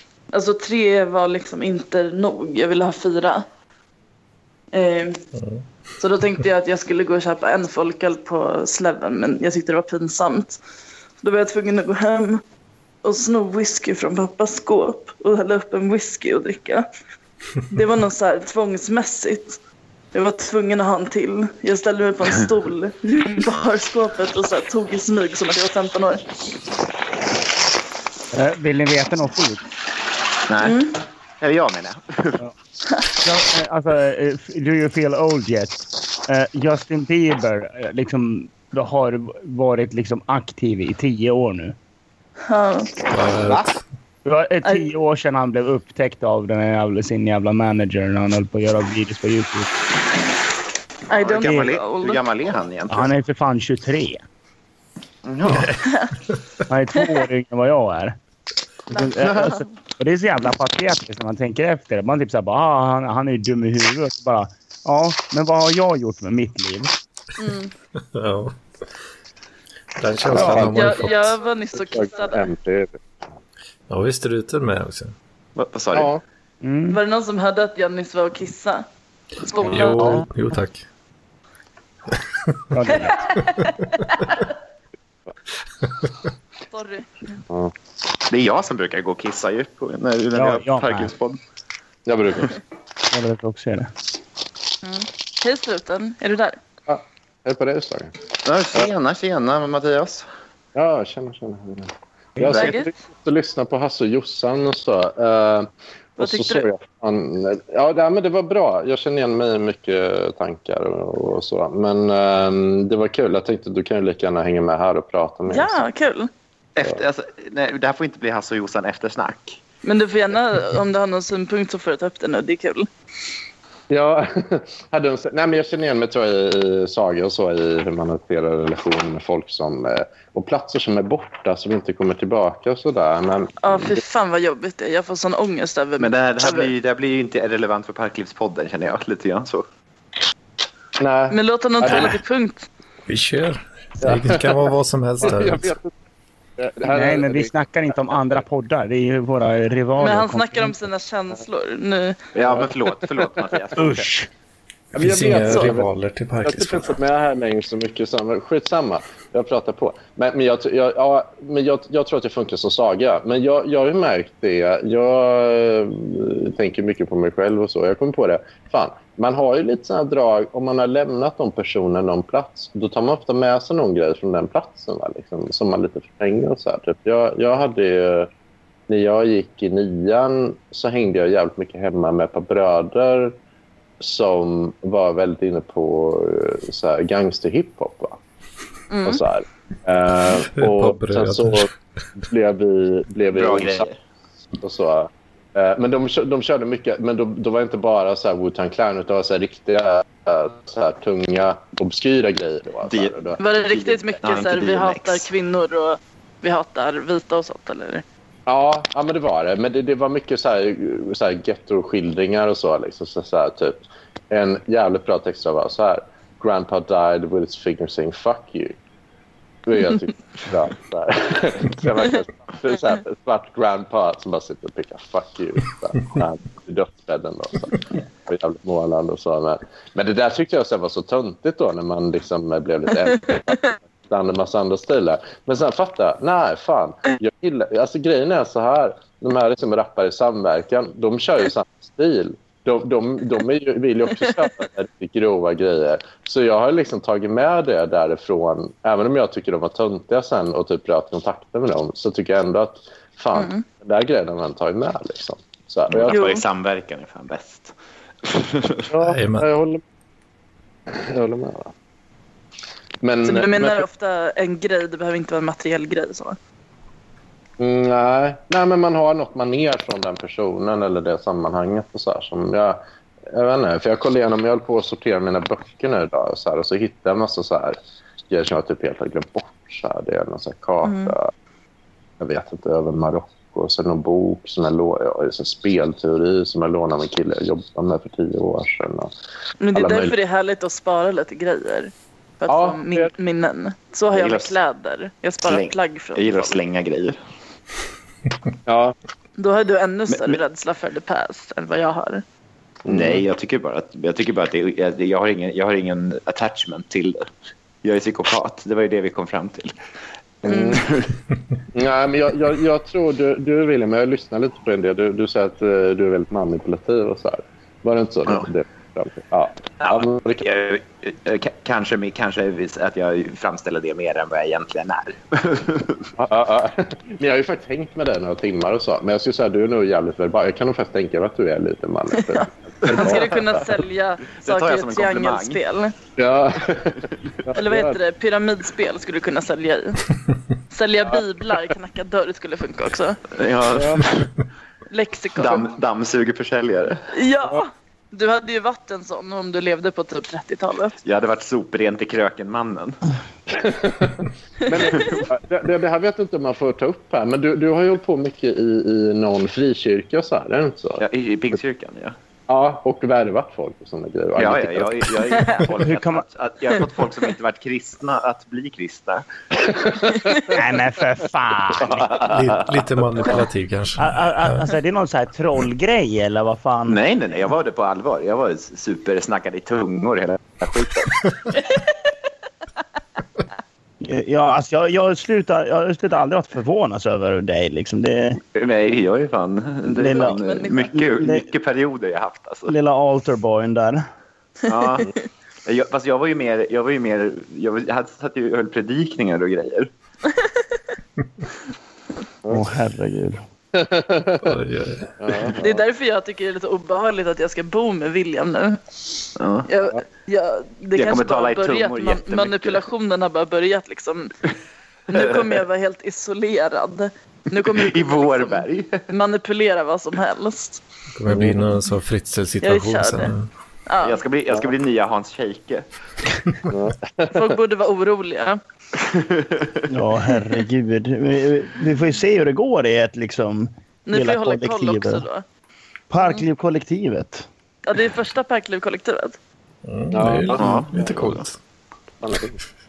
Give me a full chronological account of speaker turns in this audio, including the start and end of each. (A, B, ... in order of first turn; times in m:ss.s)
0:00.3-0:03.5 A
0:04.7-0:05.2 A
0:05.4-0:05.6 B
0:06.0-0:10.6 A
0:11.2-0:12.4 A
0:13.0-0:16.9 A
0:17.7-0:19.6 A
0:20.1-0:26.3 A
0:28.3-0:29.6 C
0:30.5-0:30.8 D
0:30.6-0:31.0 A
0:31.4-0:32.4 D
0:33.2-0:41.8 C
0:42.5-0:43.0 A
0:43.1-0:43.8 B
0:43.3-0:43.7 D
0:44.2-0:49.7 C
0:51.1-0:52.2 A
0:51.2-0:53.1 D
0:51.4-0:51.7 C
0:52.9-0:54.2 C
0:55.2-0:55.8 D
0:56.7-0:58.2 C
0:58.9-1:06.9 C
0:58.9-0:59.6 A
0:59.2-0:59.5 D
1:07.4-1:07.7 A
1:08.1-1:08.6 B
1:10.0-1:11.4 B
1:10.3-1:10.9 E
1:10.3-1:10.7 C
1:10.4-1:12.5 A
1:11.8-1:13.0 E
1:13.9-1:15.2 B
1:15.6-1:16.1 D
1:15.9-1:16.2 E
1:16.6-1:17.0 C
1:16.9-1:18.9 A
1:19.4-1:20.2 A
1:19.6-1:20.8 B
1:19.9-1:20.3 C
1:22.7-1:23.3 C
1:23.0-1:24.4 A
1:26.7-1:27.1 A
1:28.3-1:31.4 D
1:30.4-1:31.1 C
1:32.1-1:32.6 E
1:33.1-1:33.9 C
1:34.8-1:36.6 A
1:36.9-1:38.1 E
1:38.4-1:40.3 D
1:40.8-1:55.8 E
1:42.5-1:42.9 A
1:46.2-1:46.6 A
1:55.5-1:56.3 A
1:56.8-1:59.6 D
1:59.8-2:02.9 A
2:03.9-2:14.0 E
2:13.6-2:16.7 A
2:16.0-2:19.7 D
2:21.0-2:22.2 E
2:21.3-2:22.7 A
2:23.1-2:25.7 B
2:24.0-2:24.6 E
2:25.2-2:25.9 E
2:26.6-2:27.5 E
2:26.9-2:30.8 C
2:30.0-2:32.2 A
2:32.4-2:34.1 D
2:33.8-2:34.3 C
2:35.0-2:35.9 E
2:35.0-2:37.0 B
2:36.4-2:58.3 E
2:58.9-3:03.4 E
3:04.0-3:08.2 E
3:08.9-3:09.2 A
3:09.0-3:13.9 E
3:10.5-3:11.7 B
3:13.3-3:14.0 D
3:14.6-3:23.4 E
3:22.9-3:25.3 D
3:23.4-3:28.0 A
3:28.5-3:38.8 E
3:39.7-4:16.3 E
4:13.4-4:13.6 A
4:15.9-4:18.9 D
4:16.1-4:16.4 A
4:18.9-4:19.8 E
4:19.0-4:19.5 B
4:20.9-4:21.7 E
4:23.0-4:23.9 E
4:23.2-4:26.4 A
4:27.6-4:37.8 E
4:38.3-4:41.3 E
4:40.8-4:41.2 A
4:42.2-4:49.1 E
4:49.6-4:56.6 A
4:49.7-4:50.2 E
4:52.5-4:53.1 E
4:54.1-4:54.6 D
4:55.5-4:57.2 D
4:58.7-4:59.0 E
4:59.4-5:02.2 A
5:00.1-5:00.4 D
5:02.9-5:03.2 E
5:02.9-5:07.3 D
5:07.8-5:09.7 D
5:10.4-5:10.8 E
5:10.5-5:10.8 A
5:10.8-5:11.1 D
5:11.7-5:20.5 E
5:19.8-5:26.1 D
5:26.2-5:33.8 E
5:32.2-5:36.0 A
5:34.4-5:35.6 D
5:36.2-5:38.0 E
5:37.6-5:40.1 A
5:40.7-5:43.3 A
5:43.3-5:44.3 D
5:43.7-5:44.1 E
5:44.9-5:45.6 A
5:45.4-5:47.0 D
5:47.1-5:51.0 A
5:51.0-5:53.0 D
5:53.5-6:01.0 E
5:54.7-5:55.2 A
6:01.0-6:02.2 D
6:02.5-6:05.4 E
6:04.4-6:09.3 D
6:05.8-6:06.2 C
6:09.8-6:10.5 E
6:10.5-6:12.2 C
6:11.8-6:13.3 D
6:12.3-6:14.7 B
6:14.0-6:17.0 C
6:16.9-6:21.3 D
6:24.0-6:28.4 C
6:28.5-6:32.7 D
6:29.9-6:31.5 C
6:30.1-6:31.0 A
6:32.7-6:34.0 C
6:34.7-6:35.1 D
6:35.7-6:39.9 D
6:40.3-6:40.8 A
6:42.5-6:43.4 C
6:43.7-6:44.5 E
6:44.4-6:45.3 B
6:45.2-6:45.8 E
6:45.6-6:48.8 A
6:49.4-6:49.7 D
6:49.7-6:54.3 A
6:51.0-6:52.8 D
6:55.1-7:00.8 A
6:55.1-6:55.6 D
6:57.7-6:59.1 D
7:01.2-7:03.5 B
7:01.3-7:01.7 E
7:02.6-7:03.3 A
7:03.9-7:04.2 A
7:04.0-7:05.9 D
7:06.7-7:07.5 E
7:07.3-7:08.6 A
7:09.0-7:09.8 D
7:09.9-7:15.2 C
7:14.1-7:15.4 A
7:16.1-7:17.5 C
7:17.9-7:19.4 A
7:19.8-7:21.6 B
7:20.1-7:21.4 E
7:20.6-7:20.9 D
7:22.2-7:22.6 E